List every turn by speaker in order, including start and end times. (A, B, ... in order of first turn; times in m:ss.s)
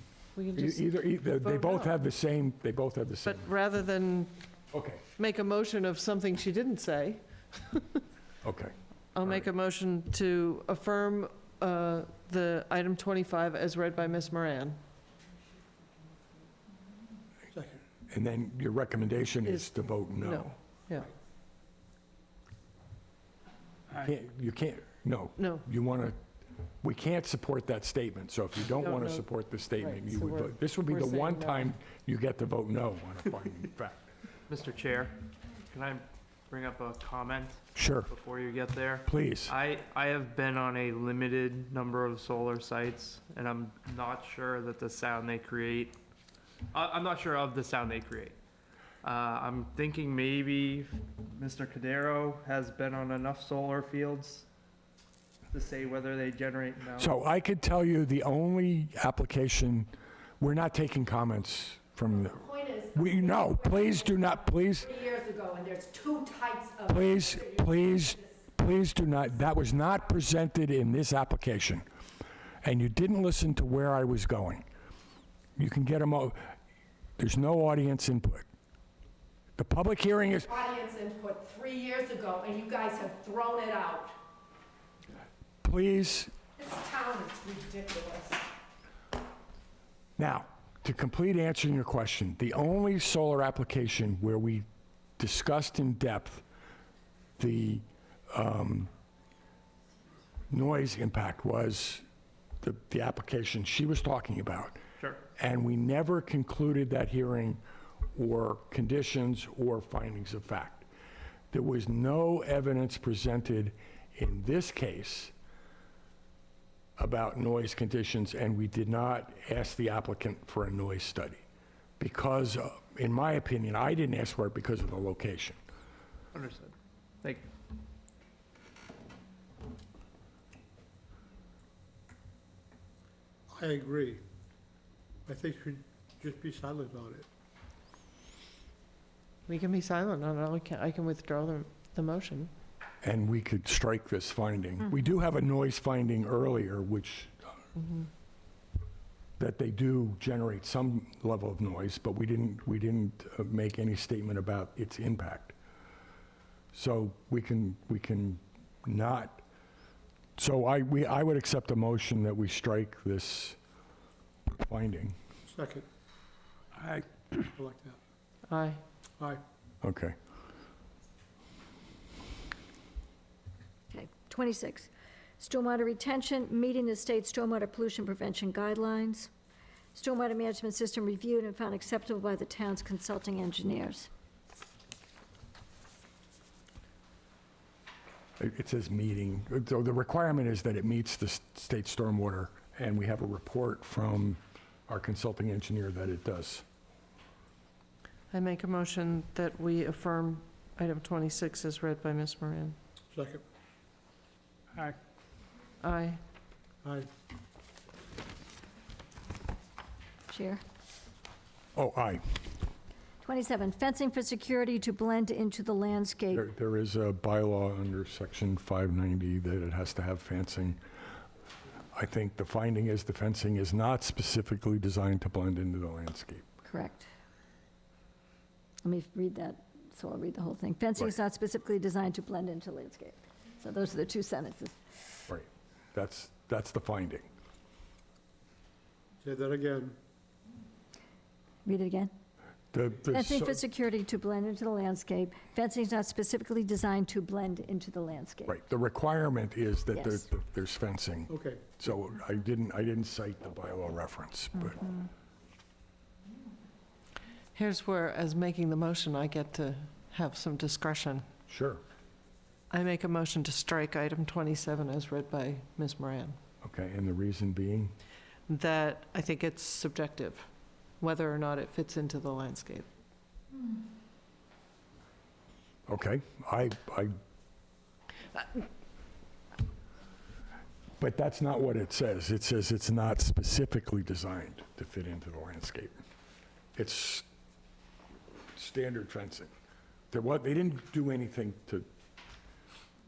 0:00.3-0:01.9 A
0:00.5-0:03.5 B
0:03.3-0:04.3 A
0:04.7-0:05.0 B
0:05.2-0:08.0 A
0:08.4-0:09.5 B
0:09.1-0:14.8 A
0:17.5-0:17.8 C
0:18.1-0:20.5 B
0:19.4-0:21.1 A
0:23.9-0:26.2 B
0:25.4-0:25.6 A
0:26.8-0:34.1 B
0:28.8-0:29.2 A
0:29.8-0:31.6 A
0:34.5-0:35.1 D
0:35.7-0:46.0 D
0:37.7-0:38.1 B
0:39.0-0:39.5 B
0:46.7-0:48.4 D
0:49.0-0:54.4 D
0:55.5-0:57.1 D
0:57.0-0:59.9 B
1:00.4-1:04.9 B
1:02.2-1:08.3 E
1:06.9-1:11.8 B
1:12.6-1:14.6 B
1:15.6-1:16.5 B
1:17.2-1:18.4 B
1:19.6-1:20.6 B
1:20.5-1:24.2 E
1:25.6-1:26.3 B
1:26.6-1:28.4 E
1:30.2-1:34.6 B
1:35.2-1:36.4 B
1:37.4-1:38.9 B
1:40.5-1:42.0 B
1:42.6-1:44.8 B
1:45.4-1:47.6 B
1:48.1-1:50.9 B
1:51.5-1:55.3 B
1:57.0-2:01.4 B
2:02.0-2:05.6 B
2:06.3-2:07.4 D
2:13.5-2:14.2 C
2:15.2-2:17.3 C
2:19.5-2:22.5 A
2:23.0-2:27.5 B
2:29.4-2:35.6 B
2:36.7-2:39.4 B
2:40.4-2:43.6 B
2:44.5-2:45.2 B
2:45.4-2:45.9 C
2:47.4-2:48.0 C
2:48.5-2:48.8 A
2:49.8-2:50.2 B
2:53.9-2:59.3 F
2:59.9-3:04.1 F
3:08.4-3:16.6 B
3:18.3-3:22.8 A
3:23.1-3:23.4 C
3:25.8-3:26.2 A
3:26.8-3:27.1 C
3:30.3-3:30.6 F
3:31.8-3:32.5 B
3:33.2-3:36.4 F
3:36.3-3:40.8 B
3:41.9-3:46.4 B
3:46.6-3:47.1 F
3:48.8-3:54.8 F
3:55.3-3:57.3 B
3:59.2-4:00.0 C
4:01.6-4:02.1 F
4:02.7-4:03.6 B
4:03.1-4:08.6 F
4:08.5-4:15.0 B
4:09.9-4:10.3 F
4:11.3-4:11.6 C
4:17.5-4:21.3 A
4:21.5-4:21.8 B
4:22.7-4:26.4 A
4:26.6-4:27.9 B
4:28.5-4:30.5 A
4:31.0-4:32.9 A
4:35.9-4:37.2 B
4:41.0-4:46.0 B
4:46.8-4:47.2 B
4:48.5-4:49.5 B
4:50.1-4:51.9 B